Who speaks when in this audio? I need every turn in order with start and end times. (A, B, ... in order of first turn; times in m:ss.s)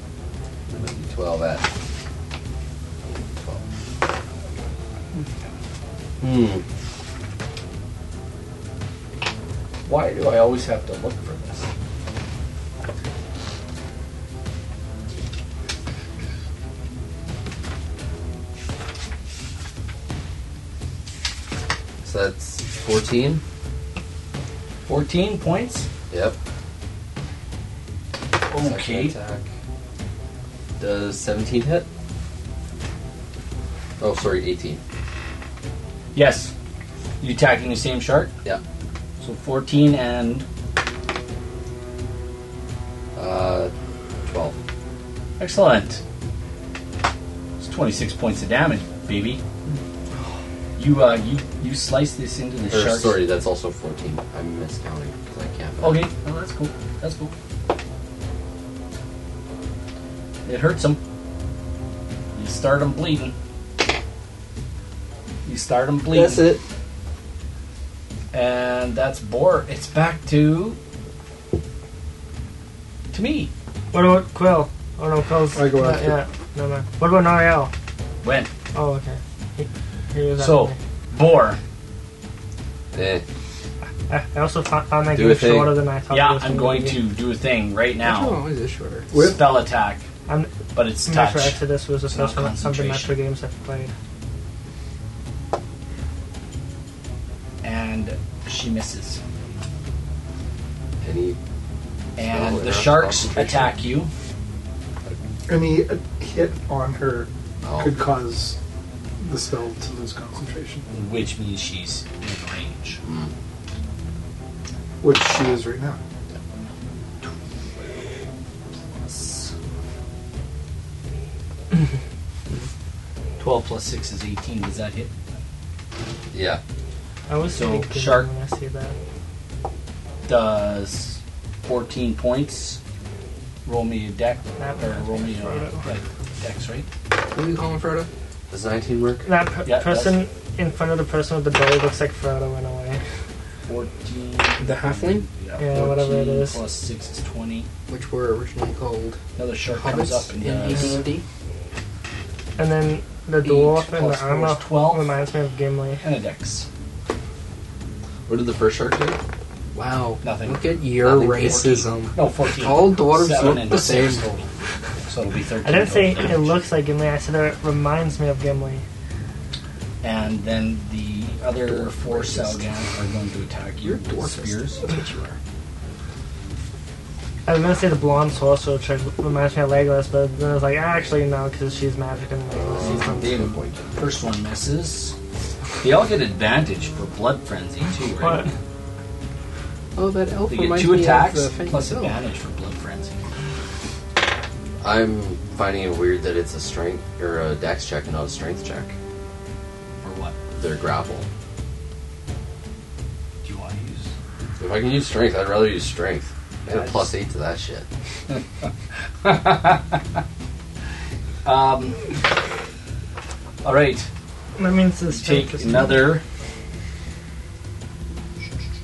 0:00.7-0:01.7 A
0:03.0-0:03.6 A
0:06.2-0:06.6 A
0:09.8-0:11.7 B
0:22.0-0:23.4 A
0:24.8-0:25.8 B
0:26.1-0:26.4 A
0:28.5-0:29.1 B
0:28.6-0:29.5 A
0:30.8-0:31.9 A
0:34.0-0:34.8 A
0:36.1-0:36.5 B
0:37.2-0:38.3 B
0:39.2-0:40.4 B
0:43.2-0:43.7 A
0:44.3-0:44.6 A
0:45.4-0:46.0 B
0:47.6-0:49.4 B
0:50.8-0:53.2 B
0:52.7-0:56.1 A
0:55.8-0:57.3 B
1:00.4-1:01.0 B
1:02.3-1:03.3 B
1:05.4-1:06.5 B
1:06.1-1:06.6 A
1:08.3-1:10.8 B
1:13.1-1:13.5 B
1:13.9-1:17.7 C
1:15.5-1:16.2 D
1:18.2-1:18.5 B
1:18.7-1:20.8 C
1:20.4-1:21.6 B
1:22.9-1:23.2 A
1:24.1-1:27.0 C
1:25.1-1:25.7 A
1:26.1-1:28.4 B
1:28.0-1:29.1 E
1:29.1-1:29.4 D
1:29.1-1:30.0 B
1:30.3-1:30.5 C
1:30.7-1:33.1 B
1:31.0-1:33.9 C
1:37.6-1:39.2 B
1:41.0-1:41.4 A
1:42.2-1:44.1 B
1:42.2-1:43.7 A
1:45.5-1:48.6 D
1:47.6-1:48.0 A
1:49.2-1:50.8 D
1:50.9-1:53.0 B
1:53.0-1:53.3 A
1:55.0-1:56.0 D
2:03.4-2:05.1 B
2:06.3-2:06.6 A
2:07.3-2:08.9 C
2:07.5-2:08.3 B
2:10.2-2:12.8 B
2:13.6-2:16.9 B
2:14.6-2:15.8 C
2:17.3-2:18.1 E
2:18.5-2:19.2 A
2:19.2-2:23.0 C
2:19.6-2:20.2 B
2:23.6-2:27.7 B
2:24.6-2:25.2 E
2:25.6-2:26.6 C
2:27.9-2:31.2 E
2:29.4-2:31.0 B
2:32.6-2:36.0 C
2:33.4-2:33.8 E
2:33.8-2:35.1 B
2:36.0-2:36.7 B
2:38.3-2:39.2 A
2:39.7-2:44.3 E
2:40.2-2:44.5 B
2:45.1-2:46.6 B
2:45.6-2:48.8 C
2:50.0-2:54.8 B
2:51.8-2:52.5 E
2:53.8-2:55.4 E
2:57.4-3:03.1 C
3:02.5-3:03.9 A
3:02.8-3:05.2 B
3:03.0-3:03.3 E
3:05.8-3:08.5 B
3:08.2-3:08.5 C
3:10.0-3:12.2 E
3:10.5-3:13.2 B
3:14.8-3:18.9 A
3:20.0-3:20.4 B
3:20.5-3:21.3 A
3:23.4-3:24.1 B
3:24.6-3:27.8 A
3:26.6-3:27.1 B
3:28.3-3:28.7 B
3:29.2-3:30.0 B
3:31.4-3:32.2 B
3:33.6-3:34.1 B
3:34.6-3:36.1 C
3:35.1-3:36.2 B